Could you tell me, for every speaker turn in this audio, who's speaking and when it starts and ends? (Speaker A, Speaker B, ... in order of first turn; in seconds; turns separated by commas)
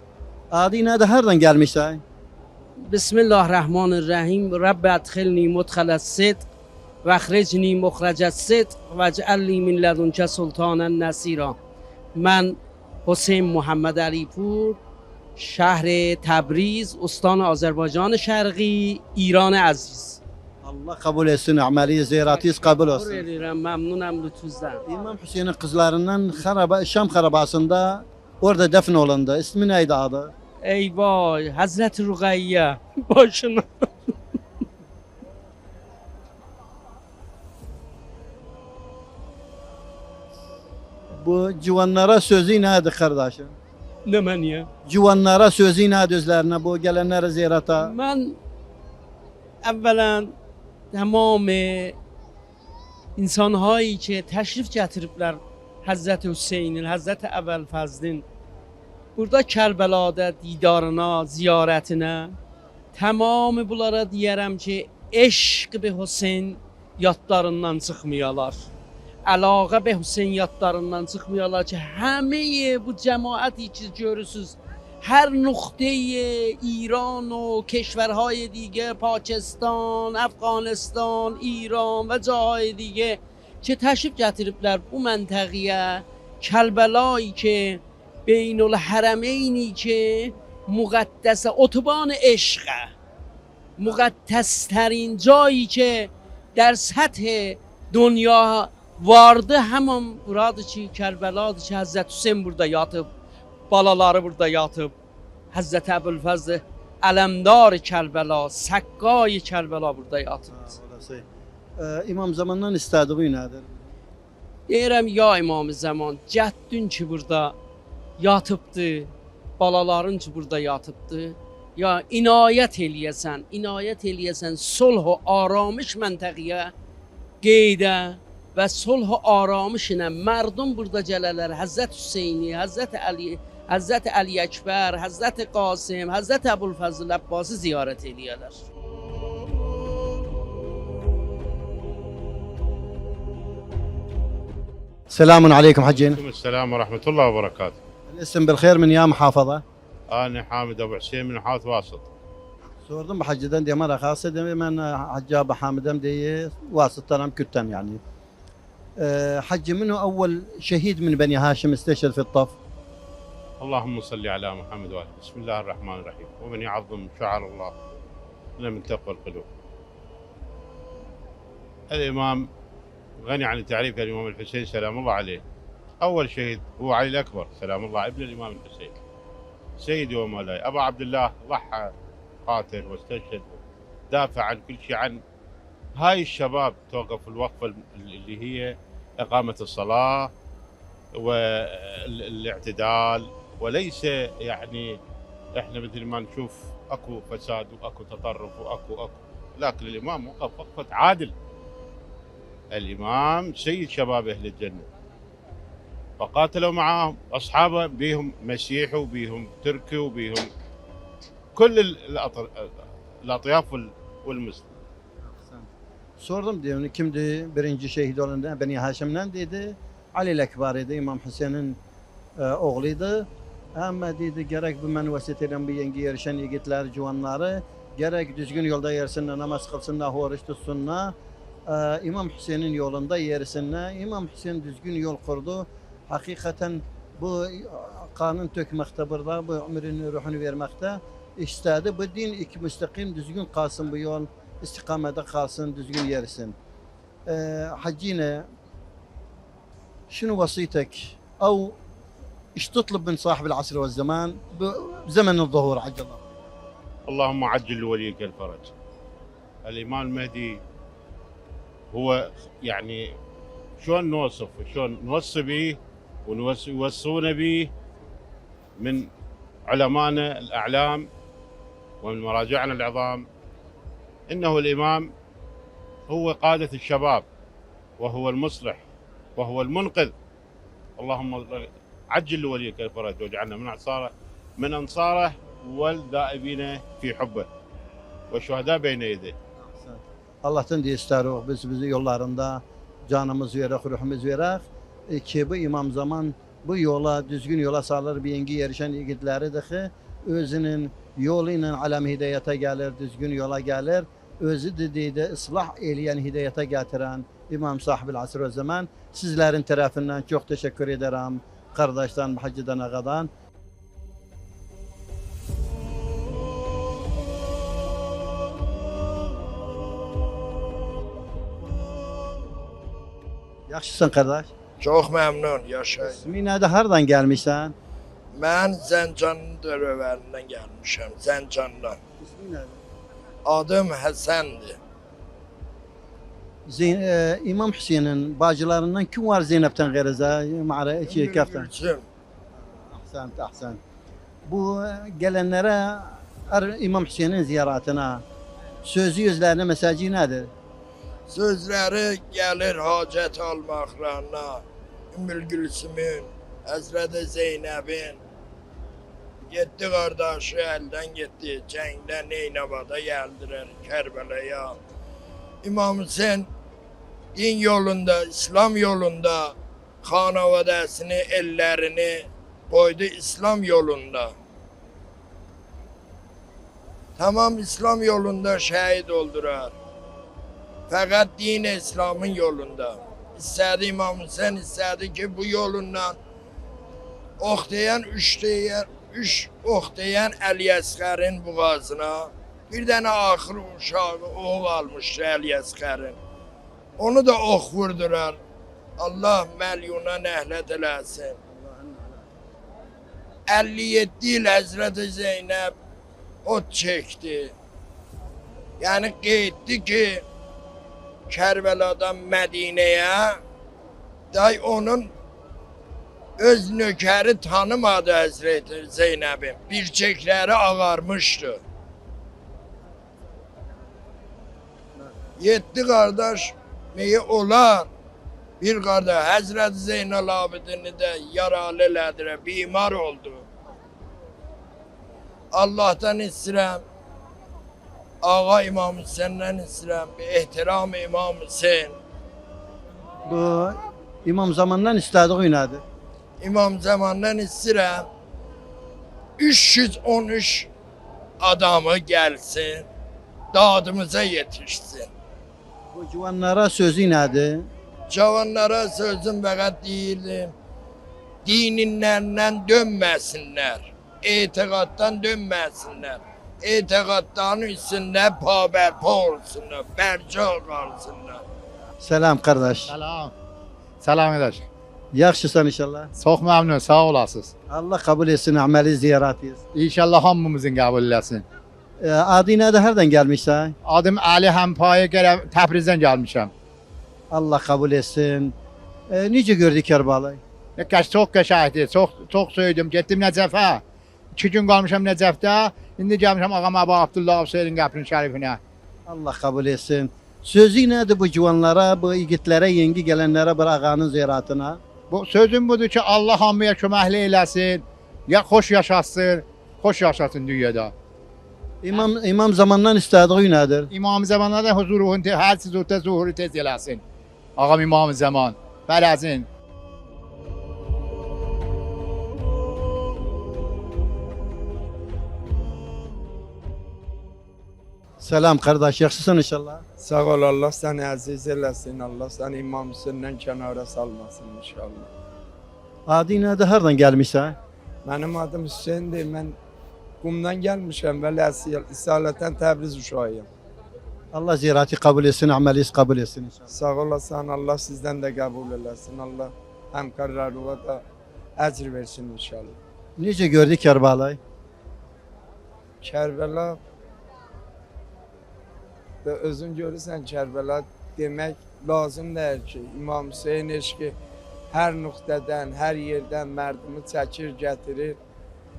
Speaker A: 0.5-2.0, Speaker B: 2.8-6.5, Speaker B: 7.0-11.6, Speaker B: 12.2-14.8, Speaker B: 15.4-20.2, Speaker A: 20.6-23.3, Speaker B: 22.3-24.8, Speaker A: 24.9-30.3, Speaker B: 30.6-33.9, Speaker A: 41.1-43.5, Speaker B: 44.0-44.7, Speaker A: 44.8-47.9, Speaker B: 47.8-48.4, Speaker B: 49.6-50.3, Speaker B: 50.9-51.9, Speaker B: 53.1-58.2, Speaker B: 59.2-62.4, Speaker B: 62.9-68.7, Speaker B: 69.2-92.9, Speaker B: 93.8-103.1, Speaker B: 103.7-104.9, Speaker B: 105.5-110.6, Speaker A: 110.5-111.2, Speaker A: 111.8-113.7, Speaker B: 114.7-117.5, Speaker B: 118.2-126.7, Speaker B: 127.4-138.6, Speaker A: 145.1-146.2, Speaker C: 145.9-147.7, Speaker A: 148.1-149.6, Speaker C: 150.1-152.1, Speaker A: 152.9-158.0, Speaker A: 159.0-162.6, Speaker C: 163.6-167.7, Speaker C: 168.6-169.4, Speaker C: 171.9-172.4, Speaker C: 173.2-175.4, Speaker C: 176.0-179.0, Speaker C: 179.8-181.9, Speaker C: 182.4-183.6, Speaker C: 184.1-185.2, Speaker C: 185.9-190.3, Speaker C: 191.2-195.0, Speaker C: 195.6-201.3, Speaker C: 202.7-204.9, Speaker C: 206.2-210.5, Speaker C: 211.6-212.7, Speaker C: 213.2-214.6, Speaker A: 215.2-215.7, Speaker A: 216.2-221.8, Speaker A: 222.4-231.1, Speaker A: 231.7-246.5, Speaker A: 247.3-248.5, Speaker A: 250.1-251.8, Speaker A: 252.6-256.2, Speaker C: 257.1-258.7, Speaker C: 259.6-260.6, Speaker C: 261.9-263.0, Speaker C: 263.8-267.7, Speaker C: 268.8-269.1, Speaker C: 269.7-271.1, Speaker C: 272.0-273.2, Speaker C: 274.3-275.1, Speaker C: 276.1-277.2, Speaker C: 278.0-278.8, Speaker C: 279.4-280.1, Speaker C: 281.0-287.5, Speaker C: 288.3-289.3, Speaker A: 289.6-313.3, Speaker A: 323.7-324.5, Speaker D: 324.8-326.3, Speaker A: 326.0-327.7, Speaker D: 328.3-332.0, Speaker A: 332.2-332.8, Speaker D: 333.4-334.8, Speaker A: 336.7-341.7, Speaker D: 341.1-342.1, Speaker A: 342.6-343.8, Speaker A: 344.4-348.2, Speaker A: 348.8-350.5, Speaker D: 351.3-354.6, Speaker D: 355.1-358.2, Speaker D: 359.5-364.8, Speaker D: 365.6-366.5, Speaker D: 367.3-374.3, Speaker D: 377.2-379.7, Speaker D: 380.9-386.1, Speaker D: 387.4-396.2, Speaker D: 397.0-398.4, Speaker D: 399.0-401.4, Speaker A: 401.5-402.3, Speaker D: 403.5-405.7, Speaker D: 406.4-407.5, Speaker D: 408.8-410.2, Speaker D: 411.3-413.4, Speaker D: 414.3-415.1, Speaker D: 416.4-421.6, Speaker D: 425.4-427.9, Speaker D: 428.6-433.4, Speaker D: 435.5-436.8, Speaker D: 438.2-441.9, Speaker A: 443.3-445.8, Speaker D: 446.4-448.1, Speaker D: 449.4-450.7, Speaker D: 451.4-452.9, Speaker D: 453.5-455.1, Speaker A: 455.9-457.7, Speaker D: 458.1-460.5, Speaker D: 461.4-471.4, Speaker A: 472.0-473.0, Speaker E: 472.9-473.3, Speaker E: 474.0-474.6, Speaker A: 475.1-476.1, Speaker E: 476.2-477.5, Speaker A: 477.7-479.6, Speaker E: 479.7-481.4, Speaker A: 482.0-483.8, Speaker E: 483.8-486.5, Speaker A: 487.3-488.5, Speaker A: 489.1-490.4, Speaker E: 490.8-493.8, Speaker E: 494.4-498.6, Speaker A: 499.1-504.8, Speaker E: 505.1-510.9, Speaker A: 511.8-513.9, Speaker E: 513.9-517.0, Speaker E: 517.6-519.5, Speaker A: 528.2-529.8, Speaker F: 530.0-535.1, Speaker A: 536.1-537.6, Speaker F: 538.0-539.5, Speaker F: 540.2-543.5, Speaker A: 544.3-546.7, Speaker F: 546.7-551.0, Speaker F: 551.6-552.8, Speaker A: 553.2-554.4, Speaker F: 556.0-556.8, Speaker F: 559.2-564.1, Speaker F: 564.7-568.2